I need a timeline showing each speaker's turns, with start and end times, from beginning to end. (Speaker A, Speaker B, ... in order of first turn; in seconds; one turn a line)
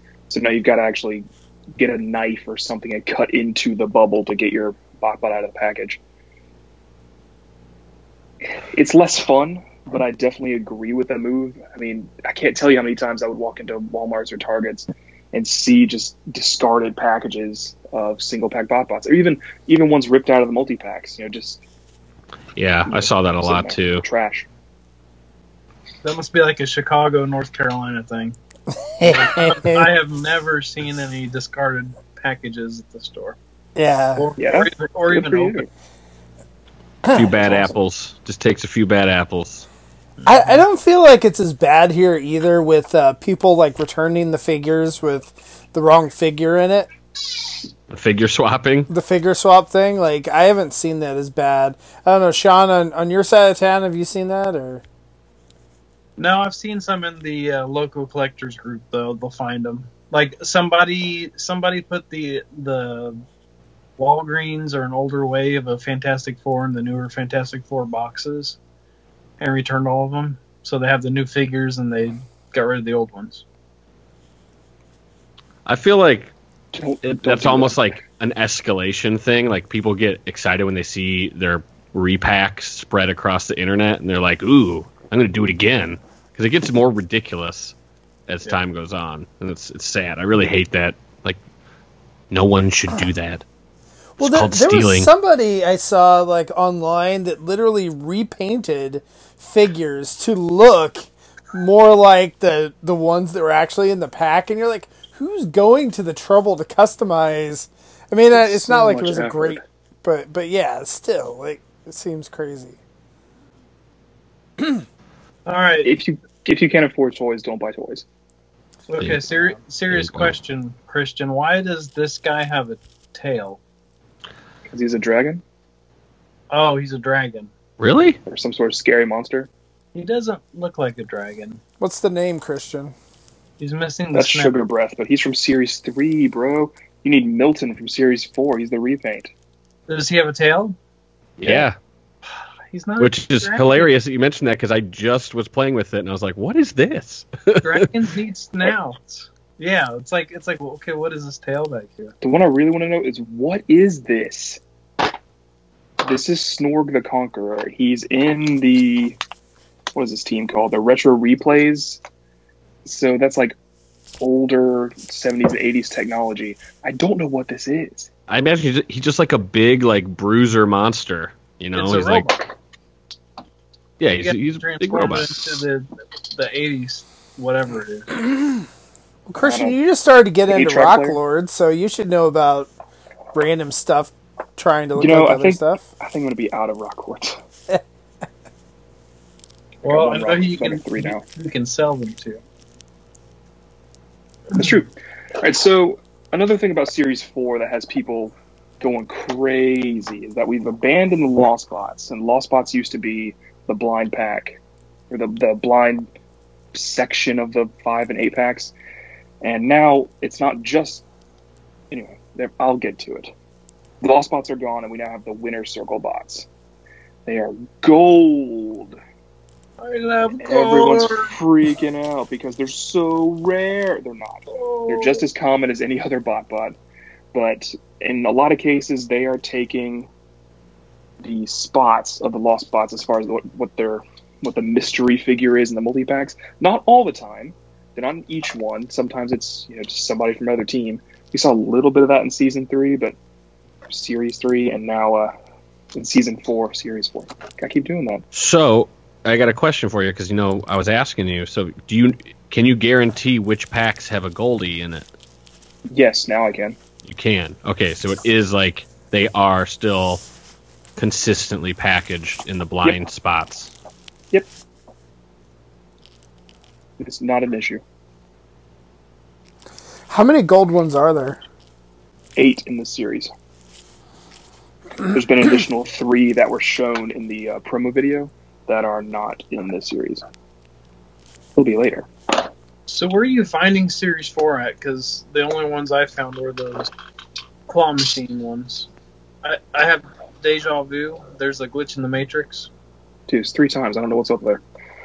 Speaker A: 0.3-6.0
Speaker A: 8.7-21.6
Speaker B: 22.6-24.1
Speaker A: 22.9-24.5
Speaker C: 26.0-28.4
Speaker D: 28.7-29.9
Speaker C: 29.0-33.4
Speaker D: 33.8-34.3
Speaker C: 34.2-35.7
Speaker A: 34.4-35.7
Speaker D: 37.0-37.8
Speaker B: 37.1-39.7
Speaker C: 40.2-40.6
Speaker D: 40.2-46.9
Speaker B: 47.9-48.9
Speaker D: 48.9-54.8
Speaker C: 56.2-63.2
Speaker C: 64.0-68.6
Speaker C: 69.4-73.4
Speaker B: 75.7-76.3
Speaker A: 76.7-78.0
Speaker B: 77.0-87.8
Speaker B: 88.3-91.4
Speaker B: 92.3-93.5
Speaker D: 94.2-112.8
Speaker B: 94.2-95.1
Speaker A: 108.3-109.6
Speaker C: 115.5-115.9
Speaker A: 115.8-118.0
Speaker C: 118.9-123.6
Speaker B: 119.0-119.3
Speaker B: 119.9-120.3
Speaker A: 124.7-125.4
Speaker C: 126.5-127.5
Speaker B: 127.8-128.2
Speaker A: 128.3-129.5
Speaker C: 129.9-131.6
Speaker D: 131.8-132.9
Speaker C: 133.6-134.6
Speaker A: 134.1-139.3
Speaker C: 139.9-140.8
Speaker B: 141.4-141.8
Speaker A: 141.4-141.7
Speaker C: 142.7-143.9
Speaker B: 143.0-147.9
Speaker C: 147.6-152.1
Speaker A: 152.2-154.6
Speaker A: 156.0-159.2
Speaker A: 159.9-162.0
Speaker A: 162.8-163.6
Speaker A: 164.2-168.1
Speaker B: 168.3-172.3
Speaker C: 171.7-172.5
Speaker B: 174.0-175.4
Speaker C: 174.2-178.2
Speaker D: 179.3-182.7
Speaker A: 179.4-179.8
Speaker A: 180.5-181.2
Speaker D: 183.3-185.8
Speaker A: 185.0-187.4
Speaker A: 189.8-191.2
Speaker C: 189.8-192.4
Speaker A: 194.6-206.1
Speaker A: 206.7-208.7
Speaker A: 209.4-211.0
Speaker A: 211.9-213.3
Speaker A: 214.0-216.5
Speaker A: 217.2-219.0
Speaker C: 219.8-221.3
Speaker A: 220.4-226.8
Speaker C: 224.5-225.3
Speaker A: 227.3-230.1
Speaker A: 231.2-243.2
Speaker A: 243.9-245.3
Speaker A: 245.9-248.2
Speaker B: 248.3-255.1
Speaker A: 255.9-256.8
Speaker B: 257.0-260.2
Speaker B: 261.0-263.7
Speaker A: 267.0-267.8
Speaker D: 270.1-271.4
Speaker A: 272.4-273.3
Speaker A: 275.1-280.2
Speaker A: 281.6-282.1
Speaker C: 282.9-286.9
Speaker C: 287.7-288.9
Speaker C: 289.4-292.7
Speaker A: 293.3-294.6